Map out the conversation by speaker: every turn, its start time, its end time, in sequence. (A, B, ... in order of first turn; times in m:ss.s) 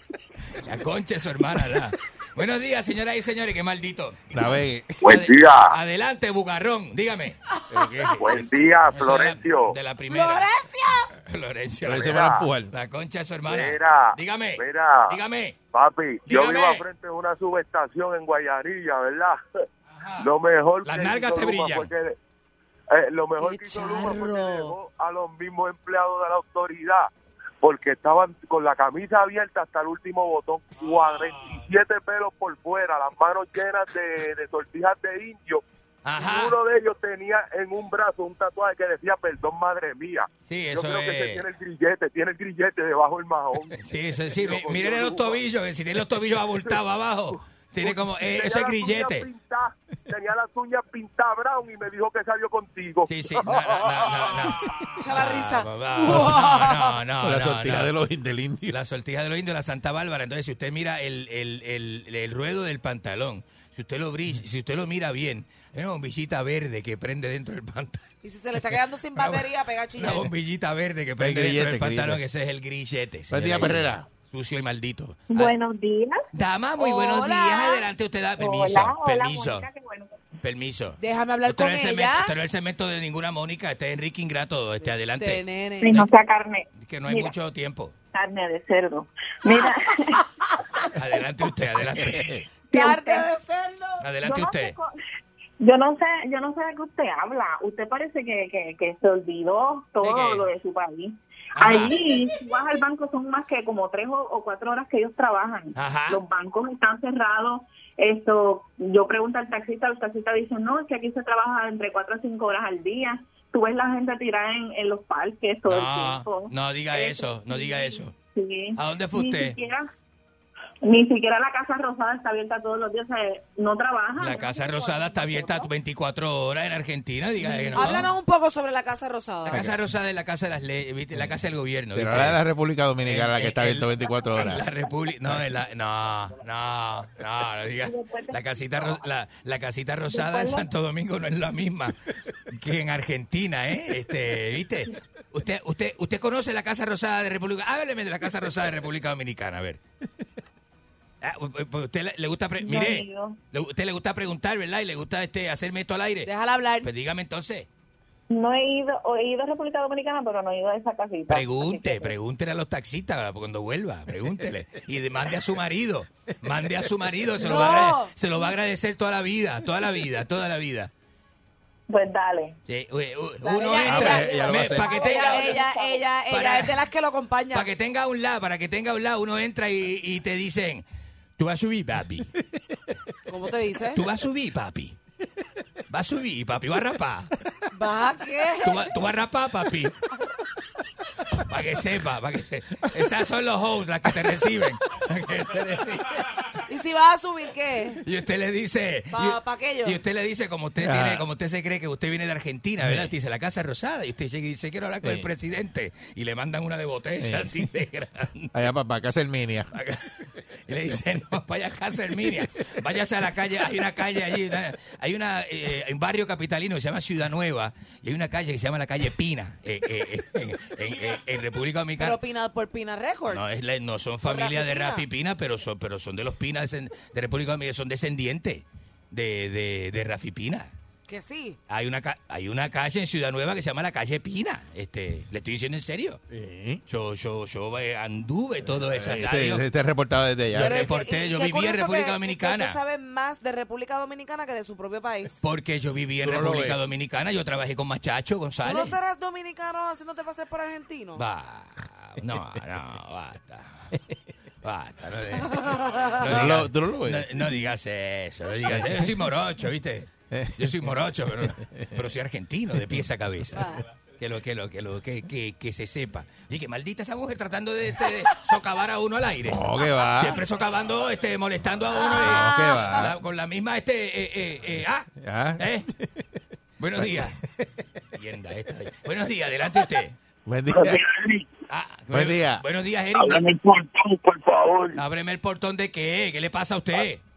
0:00.5-0:07.4 A
0:04.3-0:05.2 B
0:05.1-0:05.6 C
0:07.7-0:08.4 B
0:08.2-0:10.5 A
0:08.3-0:09.7 C
0:10.1-0:11.1 D
0:11.2-0:15.6 A
0:11.8-0:12.7 B
0:12.1-0:12.5 C
0:13.4-0:15.2 C
0:15.7-0:19.4 C
0:16.3-0:16.8 A
0:20.0-0:20.3 A
0:20.2-0:22.2 C
0:20.8-0:21.9 A
0:22.9-0:27.1 C
0:23.4-0:24.7 D
0:27.6-0:35.6 C
0:36.0-0:36.6 A
0:36.2-0:43.7 C
0:40.5-0:41.4 A
0:43.7-0:49.3 A
0:44.4-0:45.4 C
0:47.8-0:53.1 C
0:53.1-0:57.9 A
0:54.9-0:57.0 D
0:57.2-0:58.8 B
0:58.7-1:08.1 A
1:08.2-1:10.3 D
1:09.2-1:15.6 A
1:11.2-1:12.2 B
1:13.3-1:14.0 B
1:15.3-1:16.2 E
1:16.3-1:19.7 A
1:16.8-1:17.8 D
1:18.4-1:20.2 E
1:20.4-1:26.1 A
1:21.0-1:22.3 D
1:25.2-1:26.1 D
1:25.8-1:27.3 E
1:26.8-1:27.9 A
1:28.1-1:30.2 E
1:31.0-1:32.3 A
1:31.8-1:32.4 B
1:32.7-1:33.3 E
1:32.7-1:34.0 D
1:34.0-1:34.7 A
1:34.2-1:34.9 E
1:35.6-1:59.9 E
1:40.0-1:40.4 A
1:41.6-1:42.0 A
1:45.8-1:46.2 A
1:55.6-1:58.1 A
1:58.8-1:59.6 A
2:00.8-2:05.7 E
2:04.2-2:08.1 A
2:07.4-2:08.0 E
2:07.7-2:09.6 D
2:09.4-2:12.4 A
2:11.9-2:14.7 B
2:13.0-2:22.0 A
2:17.8-2:18.4 E
2:20.1-2:20.7 E
2:22.5-2:29.8 A
2:31.2-2:36.3 A
2:32.6-2:33.4 E
2:36.2-2:36.9 D
2:36.8-2:37.7 A
2:38.3-2:42.1 E
2:41.3-2:50.9 A
2:47.4-2:48.1 D
2:51.9-2:52.6 E
2:52.7-2:55.6 A
2:53.4-2:57.7 D
2:53.8-2:54.9 B
2:53.9-2:56.0 E
2:56.3-2:56.8 A
2:57.5-3:00.8 A
3:01.4-3:02.3 A
3:03.3-3:04.0 D
3:03.9-3:05.0 A
3:05.9-3:07.3 A
3:07.7-3:08.8 D
3:08.6-3:09.9 A
3:11.5-3:16.3 A
3:16.7-3:18.0 D
3:18.0-3:28.5 A
3:19.1-3:20.0 D
3:20.8-3:21.2 B
3:22.8-3:23.1 B
3:25.0-3:25.3 B
3:27.2-3:27.7 B
3:28.5-3:29.7 B
3:29.7-3:42.2 A
3:42.0-3:43.4 D
3:43.3-3:50.7 A
3:44.2-3:45.0 D
3:51.1-3:51.6 D
3:51.7-3:56.2 A
3:56.3-3:56.8 B
3:56.9-3:59.6 A
3:58.9-4:00.9 B
4:00.5-4:02.8 A
4:00.5-4:05.4 D
4:05.4-4:09.0 A
4:06.2-4:06.8 B
4:08.6-4:11.2 D
4:11.2-4:13.9 A
4:14.6-4:35.9 A
4:15.5-4:16.2 D
4:16.2-4:17.4 B
4:18.7-4:19.1 B
4:20.3-4:22.0 B
4:23.5-4:23.8 D
4:29.4-4:30.4 B
4:32.0-4:33.0 D
4:32.0-4:33.1 B
4:35.2-4:36.2 B
4:36.8-4:37.4 A
4:37.0-4:37.6 B
4:38.1-4:40.2 A
4:40.4-4:41.0 B
4:40.7-4:41.4 F
4:41.7-4:43.4 A
4:42.1-4:42.6 B
4:43.1-4:45.0 F
4:44.9-4:47.2 A